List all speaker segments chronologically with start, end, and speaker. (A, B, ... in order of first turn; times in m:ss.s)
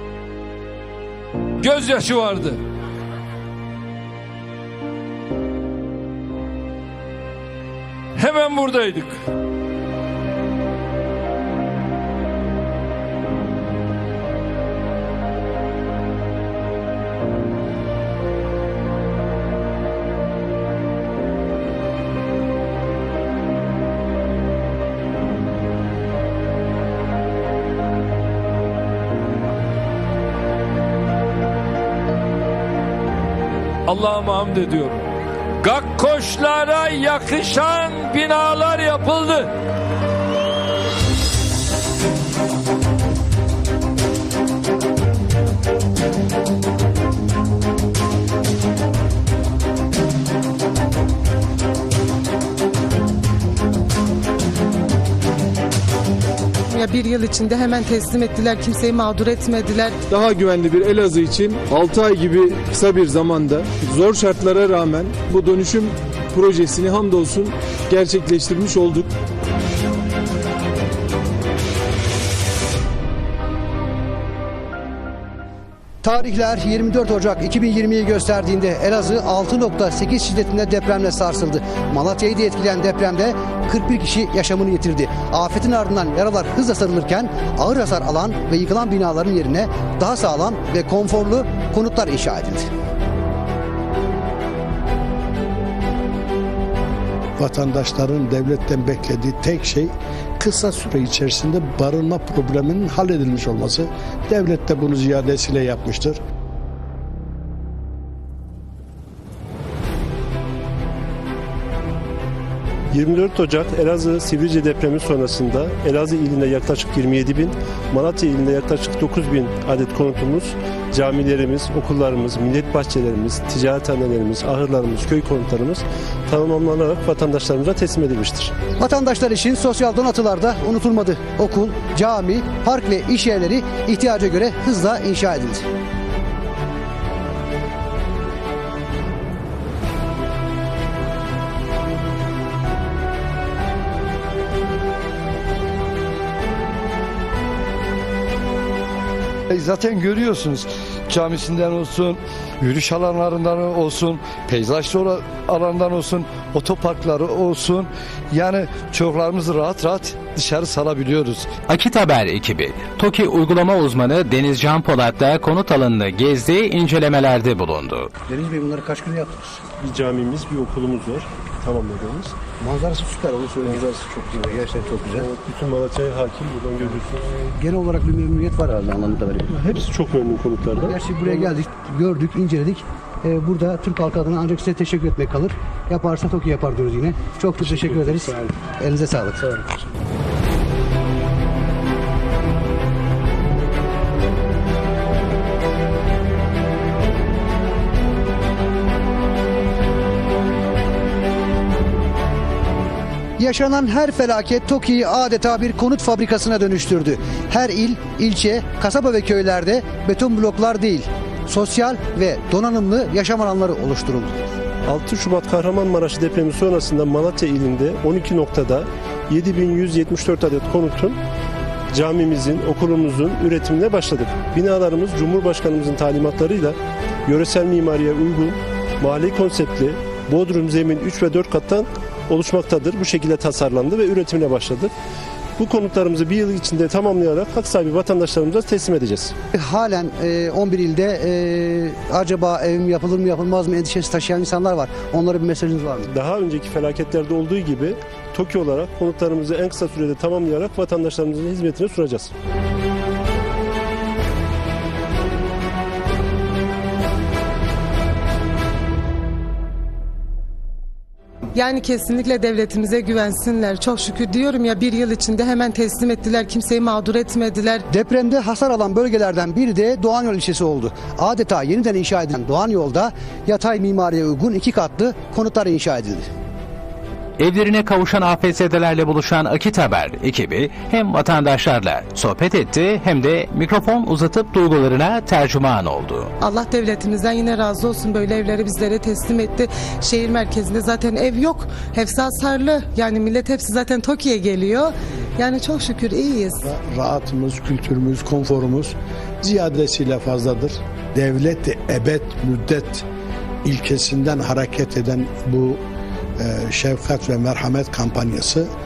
0:01.6-0:02.6 A
0:08.2-0:09.2 A
0:33.9-0:35.0 A
0:35.6-0:39.5 A
0:56.7-1:00.0 B
1:00.1-1:09.1 C
1:16.0-1:32.7 D
1:37.4-1:46.2 E
1:52.9-2:08.5 F
2:08.8-2:15.6 D
2:29.5-2:41.5 G
2:41.7-2:48.1 H
2:48.3-2:49.6 D
2:49.8-2:52.3 F
2:52.6-2:55.3 D
2:53.6-2:53.9 F
2:55.1-2:57.2 F
2:57.5-2:59.6 D
2:59.5-3:01.0 F
3:00.8-3:09.5 D
3:07.7-3:08.3 F
3:23.4-3:34.5 D
3:34.9-3:41.2 F
3:41.9-3:54.9 F
3:55.6-3:59.3 F
3:59.5-4:06.1 D
4:06.1-4:12.3 F
4:21.5-4:27.8 B
4:27.9-4:36.3 D
4:37.4-4:46.3 H
4:46.4-4:56.6 B
4:56.6-5:03.0 E
5:03.6-5:05.8 E
5:06.4-5:08.7 E